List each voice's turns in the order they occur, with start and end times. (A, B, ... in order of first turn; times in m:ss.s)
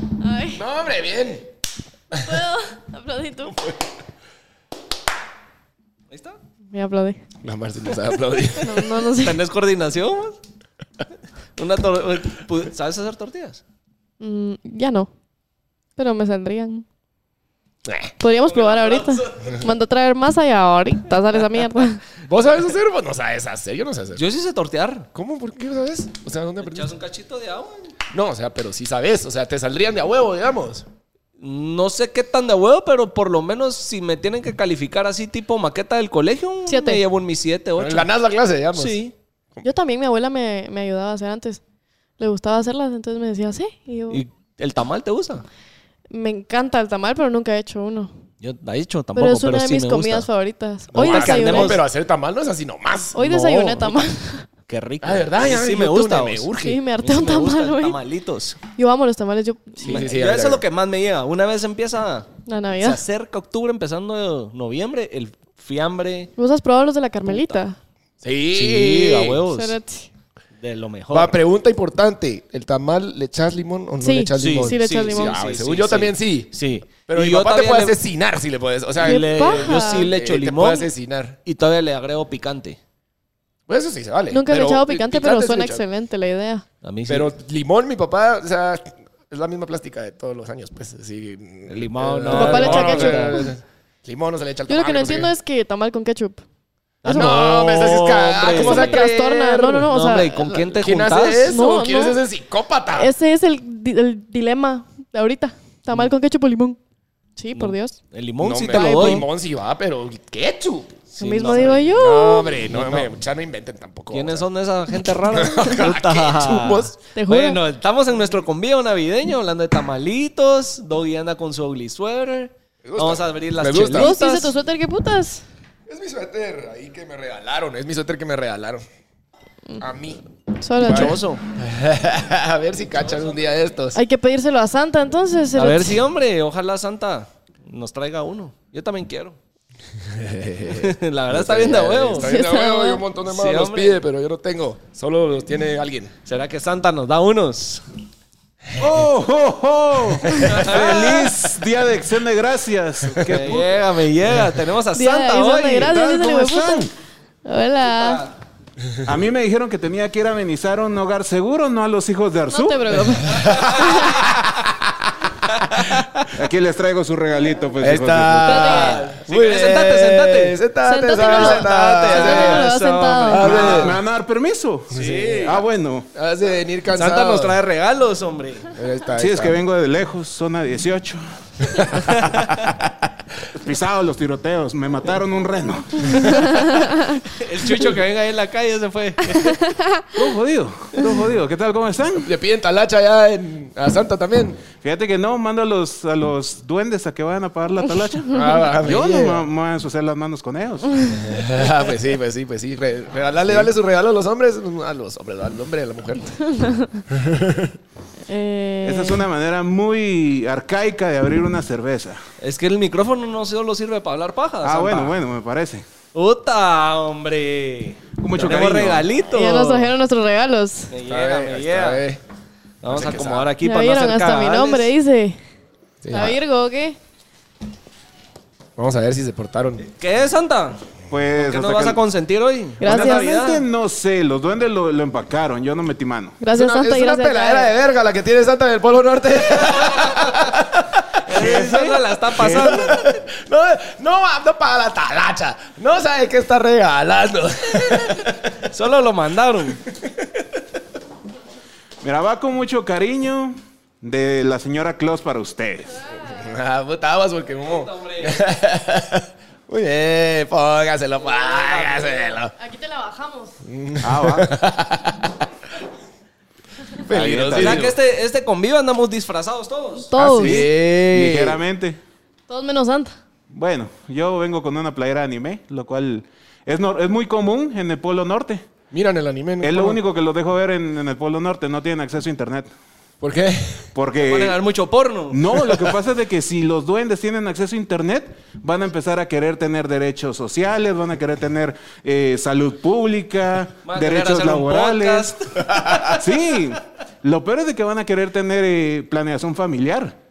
0:00.2-0:00.6 A
0:00.6-0:01.5 B
0:02.1-0:03.6 A
0:03.5-0:03.8 B
0:06.1-0:06.4 C
0:06.7-0:07.2 A
0:07.4-0:08.9 B
0:08.6-0:09.4 A
0:09.1-0:10.4 C
0:11.6-0:13.6 C
0:14.2-0:15.1 A
0:16.0-0:16.8 A
0:17.8-0:18.1 B
0:18.2-0:22.0 A
0:18.5-0:19.7 C
0:22.2-0:24.2 B
0:24.2-0:25.1 C
0:25.1-0:26.9 B
0:26.6-0:27.9 C
0:28.1-0:30.9 B
0:31.4-0:38.1 C
0:36.7-0:37.0 A
0:37.8-0:39.0 B
0:38.8-0:39.1 C
0:39.6-0:41.6 A
0:42.2-0:44.2 A
0:44.1-0:45.4 C
0:46.1-0:48.1 A
0:48.4-0:50.3 C
0:49.2-0:51.8 A
0:50.9-0:53.2 B
0:51.0-0:51.8 C
0:53.2-0:54.4 A
0:53.2-0:54.0 C
0:54.7-0:58.6 C
0:55.0-0:56.8 B
0:56.6-0:58.0 A
0:58.8-1:00.1 A
0:59.8-1:00.6 B
0:59.8-1:02.3 C
1:02.5-1:03.0 A
1:02.8-1:06.3 C
1:06.4-1:07.8 A
1:07.3-1:07.6 C
1:08.2-1:09.4 B
1:08.5-1:09.8 C
1:09.5-1:10.1 A
1:10.6-1:11.4 C
1:11.1-1:16.5 B
1:14.0-1:15.4 A
1:14.4-1:18.0 C
1:17.1-1:21.4 B
1:19.0-1:20.9 C
1:19.0-1:20.1 A
1:21.4-1:22.8 C
1:23.7-1:25.8 B
1:24.3-1:26.6 A
1:26.8-1:27.3 C
1:27.1-1:35.3 B
1:31.7-1:33.4 C
1:32.3-1:33.5 A
1:34.7-1:36.4 A
1:37.0-1:39.0 C
1:37.0-1:39.9 B
1:38.5-1:40.7 A
1:39.9-1:41.5 C
1:40.8-1:43.1 B
1:41.4-1:42.2 A
1:43.0-1:46.8 A
1:47.4-1:48.0 A
1:47.5-1:49.3 C
1:48.4-1:54.4 B
1:48.7-1:49.2 A
1:51.1-1:51.9 C
1:51.2-1:52.6 A
1:52.7-1:53.1 C
1:54.1-2:04.5 C
1:55.3-1:56.9 B
1:57.1-1:57.6 A
2:02.8-2:04.2 B
2:03.9-2:05.4 A
2:05.9-2:08.8 B
2:09.8-2:10.2 B
2:10.6-2:11.2 A
2:10.8-2:11.4 C
2:10.8-2:14.0 B
2:14.0-2:16.0 A
2:15.6-2:19.4 C
2:20.0-2:26.1 B
2:20.8-2:22.4 C
2:22.2-2:23.0 A
2:23.2-2:24.0 C
2:26.2-2:27.8 C
2:28.8-2:33.7 D
2:30.5-2:31.4 C
2:33.1-2:33.6 B
2:33.2-2:36.0 C
2:35.0-2:36.9 A
2:35.7-2:36.9 D
2:37.4-2:38.3 A
2:38.0-2:38.3 C
2:39.0-2:43.2 D
2:42.5-2:44.3 A
2:43.2-2:44.9 B
2:43.5-2:44.1 C
2:45.7-2:46.3 C
2:46.3-2:48.8 D
2:47.8-2:52.6 B
2:48.5-2:50.6 C
2:48.5-2:49.0 A
2:50.8-2:53.5 A
2:51.1-2:54.0 C
2:53.3-2:54.0 B
2:53.4-2:56.1 D
2:54.9-2:55.6 B
2:54.9-2:55.6 C
2:56.2-2:57.6 B
2:56.9-2:58.7 C
2:58.8-2:59.6 B
2:59.2-3:02.5 D
3:03.5-3:06.6 D
3:06.4-3:07.0 A
3:06.8-3:09.6 C
3:09.6-3:10.0 A
3:10.1-3:12.3 D
3:12.2-3:14.6 B
3:14.8-3:21.2 D
3:18.3-3:19.4 B
3:21.1-3:26.5 B
3:23.5-3:23.7 D
3:27.1-3:27.7 B
3:28.3-3:29.2 A
3:28.8-3:32.2 D
3:32.4-3:35.2 C
3:34.6-3:35.8 D
3:36.1-3:39.9 C
3:38.2-3:39.1 D
3:39.3-3:40.9 A
3:40.9-3:42.0 C
3:41.1-3:42.2 B
3:42.8-3:44.9 C
3:42.9-3:43.5 B
3:43.6-3:45.4 A
3:46.0-3:46.4 B
3:46.1-3:47.0 A
3:48.8-3:49.9 B
3:49.8-3:50.8 C
3:51.1-3:52.0 D
3:51.4-3:53.6 C
3:52.8-3:53.3 A
3:52.8-3:56.4 D
3:56.4-3:57.7 A
3:56.5-4:01.1 B
4:01.3-4:03.1 C
4:01.3-4:03.0 D
4:02.4-4:08.6 B
4:08.6-4:09.8 C
4:12.0-4:16.0 D
4:16.2-4:22.5 B
4:17.7-4:18.4 C
4:21.4-4:22.4 C
4:22.6-4:23.5 A
4:23.7-4:25.4 B
4:24.0-4:24.5 D
4:27.0-4:28.0 B
4:27.1-4:27.9 D
4:27.5-4:30.1 C
4:30.1-4:30.6 A
4:30.2-4:32.0 D
4:30.4-4:31.6 B
4:32.5-4:33.2 A
4:33.5-4:38.7 D
4:38.9-4:40.0 B
4:39.6-4:42.7 D
4:43.2-4:43.9 B
4:44.0-4:44.6 D
4:44.2-4:45.7 C
4:45.3-4:55.4 D
4:53.8-4:56.0 C
4:55.7-4:56.2 B
4:56.1-5:00.2 D